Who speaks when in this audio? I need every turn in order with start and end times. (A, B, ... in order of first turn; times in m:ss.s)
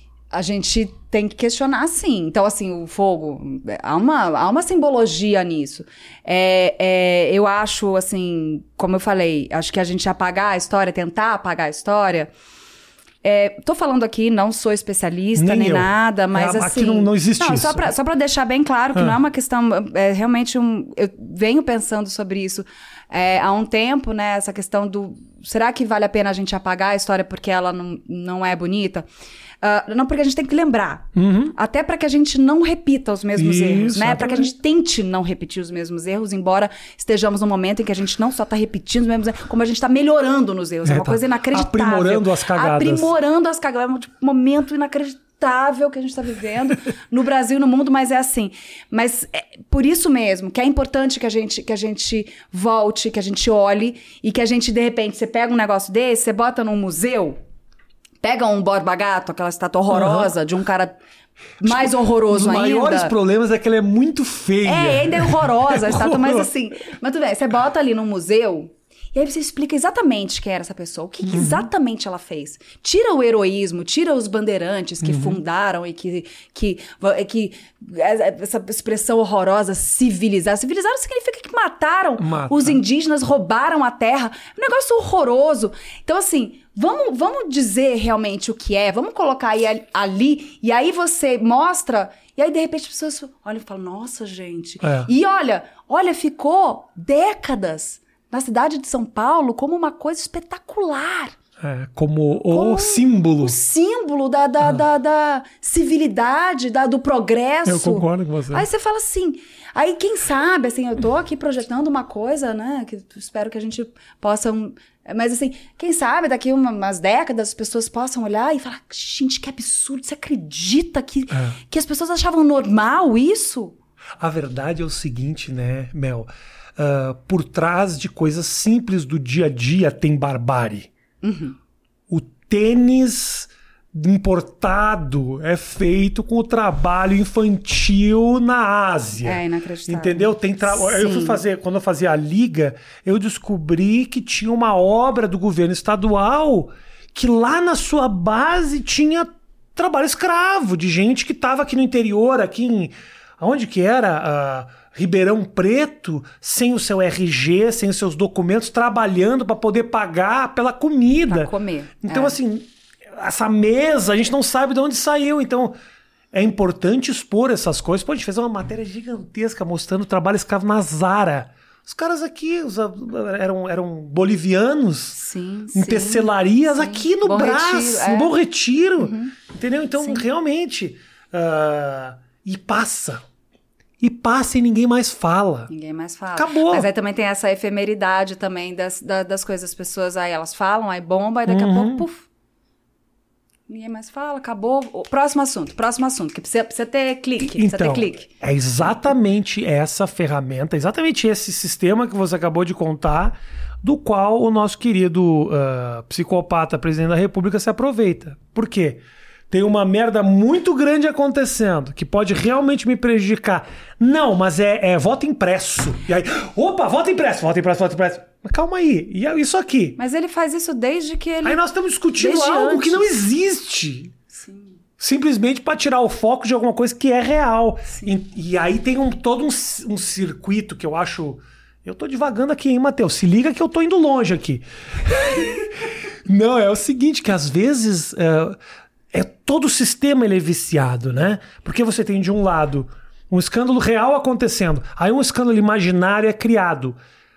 0:00.3-0:12.3 A
0:13.2-0:29.1 A
0:15.4-0:17.9 B
0:29.6-0:57.4 A
0:31.1-0:31.5 B
0:33.4-0:34.5 B
0:40.9-0:43.1 B
0:58.2-1:00.9 A
0:59.9-1:00.3 B
1:01.6-1:03.1 A
1:01.6-1:06.5 B
1:04.6-1:41.4 A
1:11.3-1:11.7 B
1:15.0-1:15.4 B
1:22.2-1:22.8 B
1:34.8-1:35.1 B
1:41.6-1:43.6 B
1:42.5-2:03.8 A
1:47.6-1:48.6 B
2:04.2-2:10.9 B
2:11.2-2:11.6 A
2:12.1-2:41.5 B
2:19.2-2:21.4 A
2:41.3-2:42.4 A
2:42.0-2:45.7 B
2:46.3-2:55.2 B
2:55.1-2:58.3 A
2:55.8-3:03.2 B
2:59.0-2:59.4 A
3:04.0-3:05.7 B
3:05.7-3:12.3 A
3:06.4-3:06.9 B
3:11.5-3:12.1 B
3:13.7-3:18.3 A
3:17.5-3:40.0 B
3:40.0-3:41.6 A
3:41.4-3:44.1 B
3:42.2-3:43.1 A
3:44.3-3:44.8 A
3:45.0-3:58.6 B
3:59.1-4:07.0 B